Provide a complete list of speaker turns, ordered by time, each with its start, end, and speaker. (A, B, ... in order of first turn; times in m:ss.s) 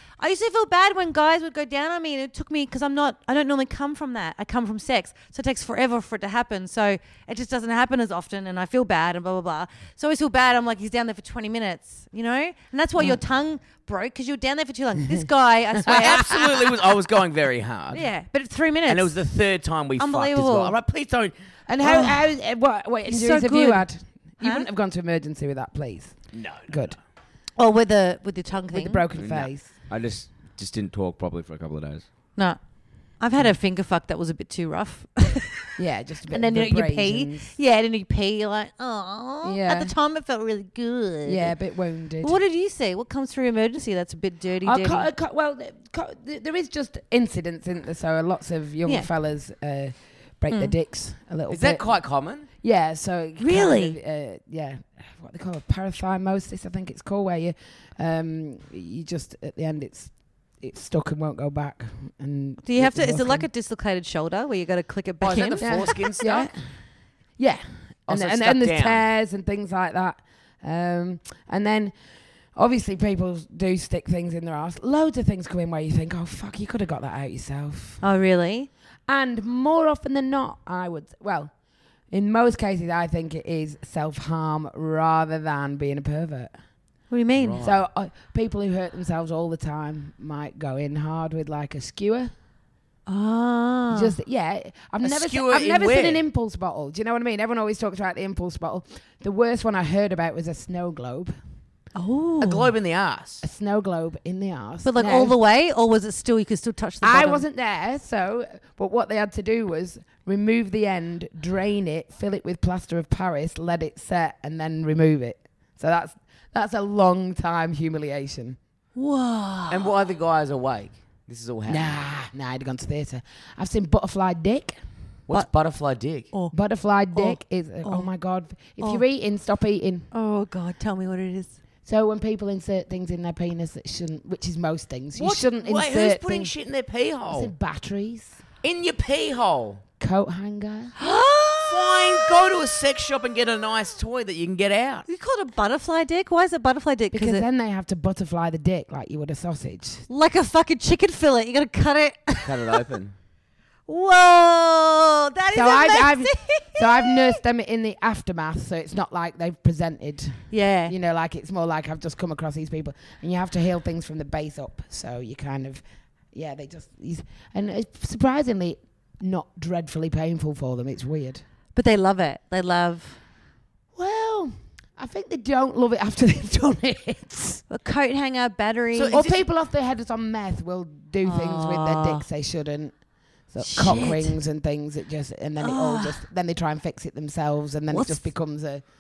0:00.2-0:16.4 A
0:15.9-0:18.1 B
0:17.9-0:19.3 A
0:18.9-0:21.3 B
0:20.0-0:20.7 A
0:21.7-0:27.0 C
0:21.8-0:22.3 A
0:23.1-0:23.8 A
0:24.4-0:24.7 A
0:26.3-0:26.9 B
0:27.6-0:29.0 A
0:28.7-0:29.7 C
0:29.2-0:32.0 B
0:33.2-0:35.7 A
0:35.8-0:37.6 C
0:36.3-0:41.5 A
0:39.4-0:39.9 C
0:41.2-0:42.4 C
0:42.2-0:45.1 A
0:44.6-0:51.9 C
0:51.5-0:52.4 B
0:52.6-1:03.5 C
0:53.4-0:54.0 A
1:02.6-1:06.4 A
1:05.2-1:06.5 B
1:05.6-1:06.5 C
1:07.4-1:11.9 C
1:08.1-1:09.0 B
1:12.5-1:18.0 C
1:18.0-1:18.7 A
1:19.1-1:21.5 C
1:22.1-1:26.5 C
1:27.1-1:27.6 A
1:27.4-1:27.8 B
1:27.6-1:32.3 C
1:33.1-1:34.1 A
1:33.9-1:41.3 C
1:35.0-1:36.2 B
1:41.9-1:42.7 A
1:42.4-1:43.4 B
1:43.4-1:45.4 C
1:44.8-1:47.4 A
1:47.0-1:58.6 C
1:59.0-1:59.9 A
1:59.7-2:02.0 B
2:01.7-2:04.8 C
2:05.3-2:06.3 B
2:06.5-2:10.0 C
2:07.1-2:08.1 A
2:10.1-2:11.6 A
2:11.8-2:16.5 C
2:15.1-2:17.5 B
2:17.3-2:18.4 C
2:18.6-2:19.8 B
2:20.0-2:20.9 C
2:21.0-2:22.6 A
2:21.6-2:25.0 B
2:25.1-2:27.4 A
2:27.1-2:30.1 C
2:30.1-2:32.8 A
2:32.4-2:33.1 B
2:33.9-2:37.4 A
2:35.5-2:51.4 C
2:40.5-2:40.9 A
2:51.7-2:53.2 A
2:54.0-2:57.6 C
2:57.7-2:59.2 A
2:58.9-2:59.4 B
2:59.1-3:03.0 C
3:01.2-3:02.2 A
3:03.5-3:08.8 C
3:03.6-3:04.4 A
3:05.6-3:06.2 A
3:07.9-3:08.3 A